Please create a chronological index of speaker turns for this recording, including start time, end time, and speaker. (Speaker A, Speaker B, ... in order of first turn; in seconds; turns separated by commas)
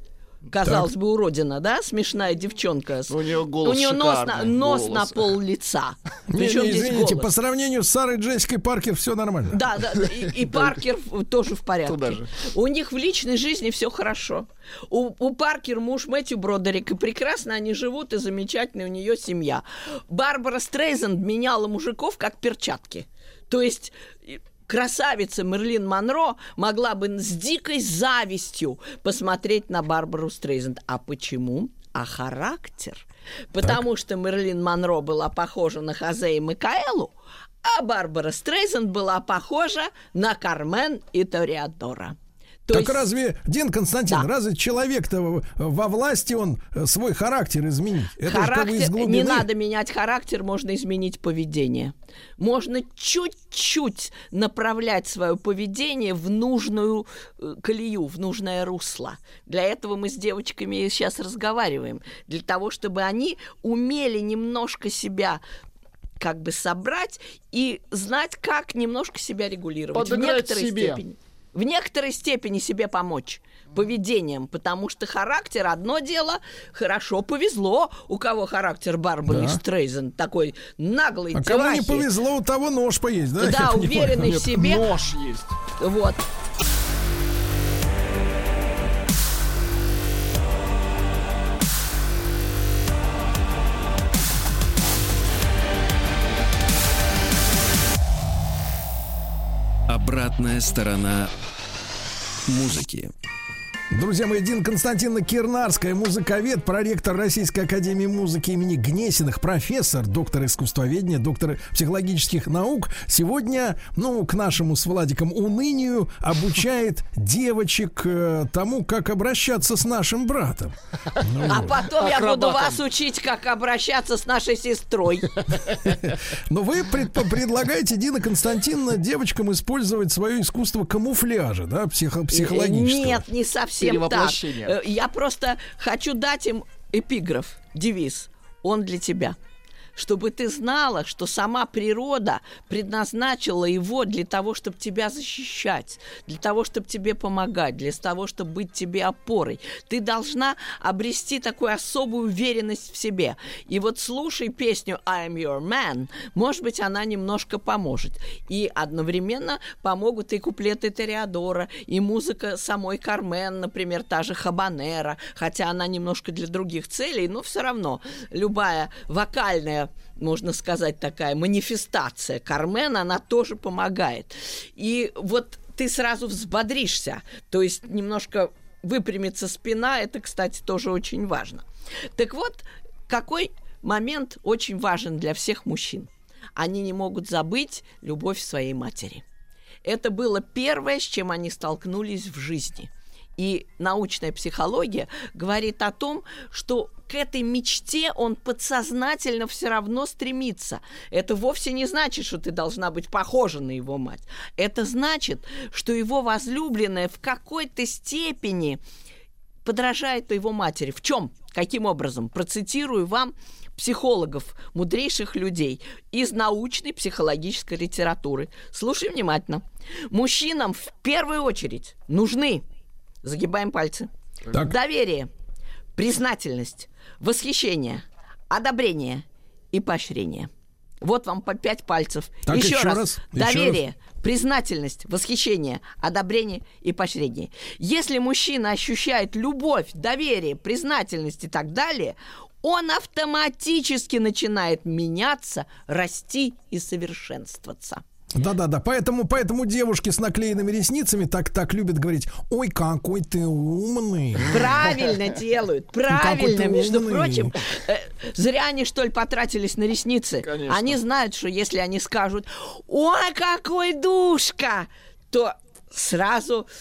Speaker A: 0.5-7.3, Speaker B: 0.6-0.9, Speaker C: 3.1-5.4, Speaker B: 6.3-9.6, Speaker A: 9.5-43.1, Speaker C: 10.4-10.7, Speaker C: 11.8-12.3, Speaker B: 42.7-49.5, Speaker A: 48.2-65.4, Speaker A: 66.2-82.1, Speaker C: 69.9-71.0, Speaker B: 79.3-79.6, Speaker B: 81.3-84.3, Speaker A: 83.4-84.9, Speaker C: 84.2-85.5, Speaker A: 85.8-86.2, Speaker D: 99.9-101.3, Speaker D: 102.5-103.1, Speaker B: 103.9-121.8, Speaker C: 121.4-122.8, Speaker A: 121.5-125.4, Speaker B: 125.8-133.2, Speaker A: 132.3-139.4, Speaker C: 133.8-134.8, Speaker A: 139.9-181.6, Speaker A: 182.2-189.2, Speaker A: 189.8-208.8, Speaker A: 209.6-222.6, Speaker A: 223.2-225.3, Speaker A: 225.9-230.5, Speaker A: 231.0-248.0, Speaker B: 232.5-233.8, Speaker B: 248.3-254.6, Speaker A: 254.5-266.7, Speaker B: 256.1-257.5, Speaker C: 260.4-261.0